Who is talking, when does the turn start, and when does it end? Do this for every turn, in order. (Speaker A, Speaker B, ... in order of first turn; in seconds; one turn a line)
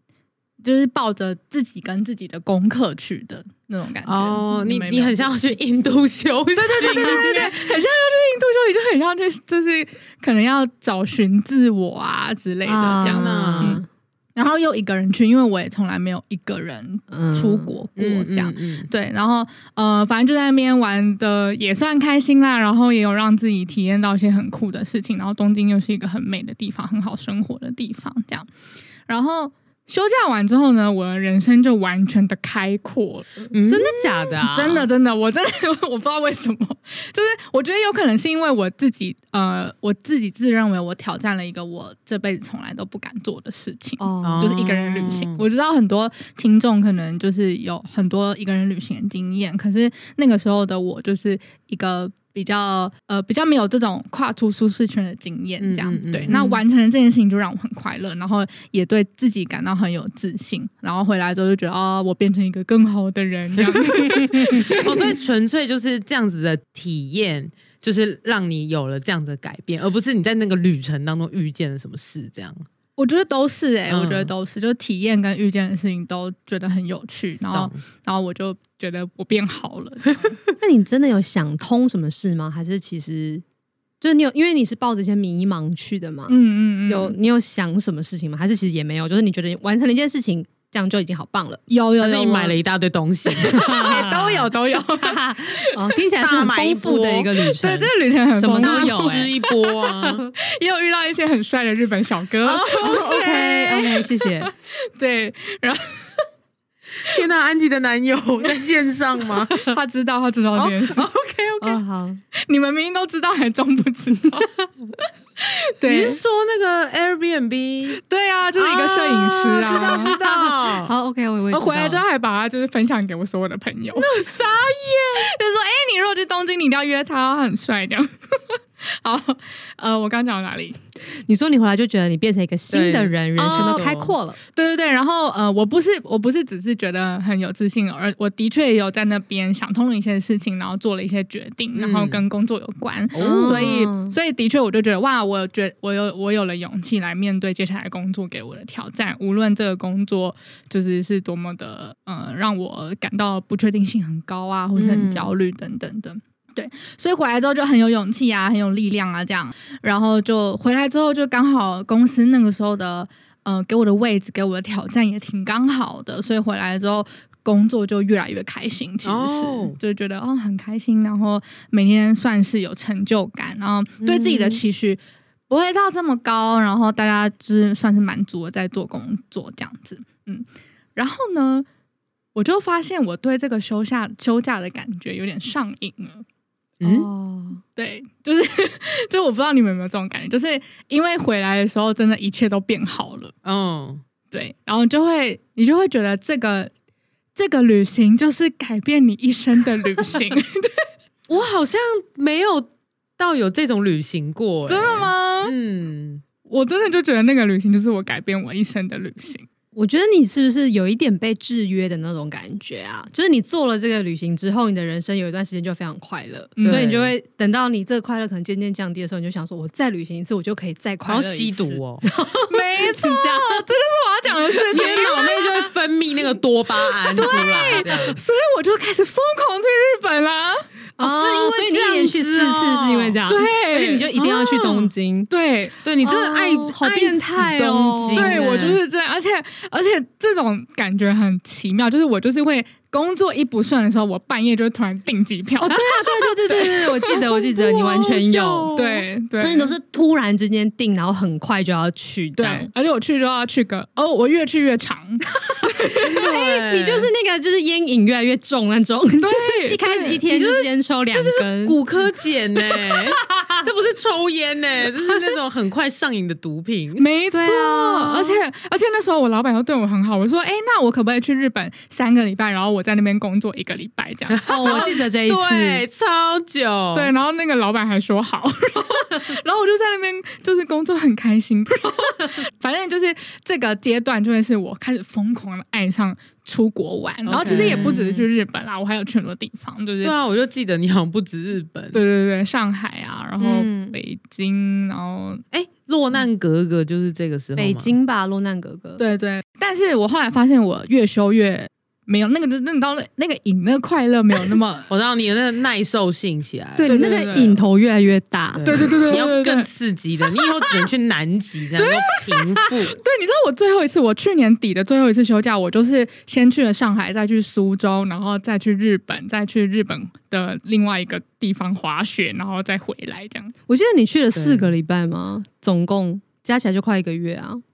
Speaker A: 0.6-5.3
Speaker B: 4.0-7.6
Speaker A: 6.6-13.8
Speaker C: 6.9-7.3
Speaker C: 12.7-13.9
Speaker B: 13.0-13.8
Speaker A: 14.4-28.5
Speaker C: 17.1-17.7
Speaker B: 18.0-18.9
Speaker A: 29.1-33.5
Speaker B: 33.5-33.9
Speaker C: 33.6-34.9
Speaker A: 34.4-65.1
Speaker C: 44.0-44.5
Speaker B: 44.2-45.5
Speaker B: 55.6-56.4
Speaker C: 56.3-56.6
Speaker B: 63.6-72.7
Speaker C: 64.5-64.8
Speaker A: 73.0-80.4
Speaker B: 73.9-74.3
Speaker B: 77.5-77.8
Speaker C: 80.6-83.4
Speaker C: 84.0-86.3
Speaker A: 86.3-87.2
Speaker C: 86.9-91.6
Speaker A: 91.7-92.6
Speaker B: 92.0-93.7
Speaker A: 93.3-95.9
Speaker C: 93.5-94.5
Speaker C: 95.0-99.3
Speaker B: 96.2-97.5
Speaker A: 97.5-103.9
Speaker B: 98.5-100.3
Speaker B: 102.4-104.0
Speaker C: 102.8-104.5
Speaker A: 104.4-106.2
Speaker B: 107.0-109.7
Speaker A: 109.4-111.1
Speaker B: 110.5-111.8
Speaker C: 111.6-112.2
Speaker A: 112.3-114.7
Speaker A: 115.4-116.2
Speaker B: 115.8-118.0
Speaker A: 117.9-120.2
Speaker B: 118.6-120.9
Speaker C: 119.5-122.0
Speaker A: 121.5-124.3
Speaker B: 123.9-125.3
Speaker A: 125.1-130.8
Speaker C: 131.1-134.4
Speaker B: 132.7-134.1
Speaker A: 133.4-133.9
Speaker A: 134.5-181.7
Speaker B: 141.8-142.2
Speaker B: 143.1-143.8
Speaker C: 143.2-144.2
Speaker C: 154.8-155.3
Speaker B: 169.0-169.8
Speaker C: 174.0-174.6
Speaker A: 182.3-186.2
Speaker B: 186.8-187.1
Speaker C: 186.8-187.6
Speaker A: 187.8-193.3
Speaker B: 193.4-194.0
Speaker A: 194.3-196.7
Speaker A: 197.4-200.9
Speaker B: 201.3-206.2
Speaker A: 204.7-205.5
Speaker A: 206.5-209.5
Speaker C: 209.8-223.6
Speaker A: 216.6-216.9
Speaker B: 216.6-217.1
Speaker B: 221.1-222.1
Speaker A: 222.5-225.7
Speaker B: 224.7-228.2
Speaker A: 227.1-230.7
Speaker C: 227.1-228.1
Speaker C: 231.0-235.3
Speaker B: 231.0-233.2
Speaker A: 233.3-234.1
Speaker B: 234.2-234.9
Speaker A: 235.3-235.8
Speaker B: 235.8-238.8
Speaker C: 236.0-238.4
Speaker A: 238.1-245.9
Speaker C: 245.6-248.7
Speaker A: 246.5-246.9
Speaker B: 247.0-249.0
Speaker A: 248.7-249.8
Speaker C: 249.4-252.7
Speaker A: 252.4-255.9
Speaker C: 255.5-261.8
Speaker B: 256.0-257.1
Speaker A: 259.2-260.2
Speaker B: 260.3-267.1
Speaker C: 262.6-263.6
Speaker A: 267.0-274.9
Speaker C: 267.3-268.4
Speaker B: 274.3-277.1
Speaker C: 274.4-275.8
Speaker A: 276.9-290.2
Speaker B: 287.2-288.1
Speaker C: 287.4-288.3
Speaker B: 290.0-292.0
Speaker A: 291.9-295.4
Speaker C: 293.4-294.0
Speaker B: 295.5-297.9
Speaker C: 297.6-299.0
Speaker A: 299.0-304.9
Speaker B: 304.9-306.9
Speaker C: 306.8-308.8
Speaker A: 306.8-307.6
Speaker B: 308.5-313.0
Speaker A: 308.6-309.7
Speaker A: 310.4-310.9
Speaker A: 311.8-312.3
Speaker A: 312.9-323.5
Speaker C: 323.7-327.6
Speaker B: 324.4-324.8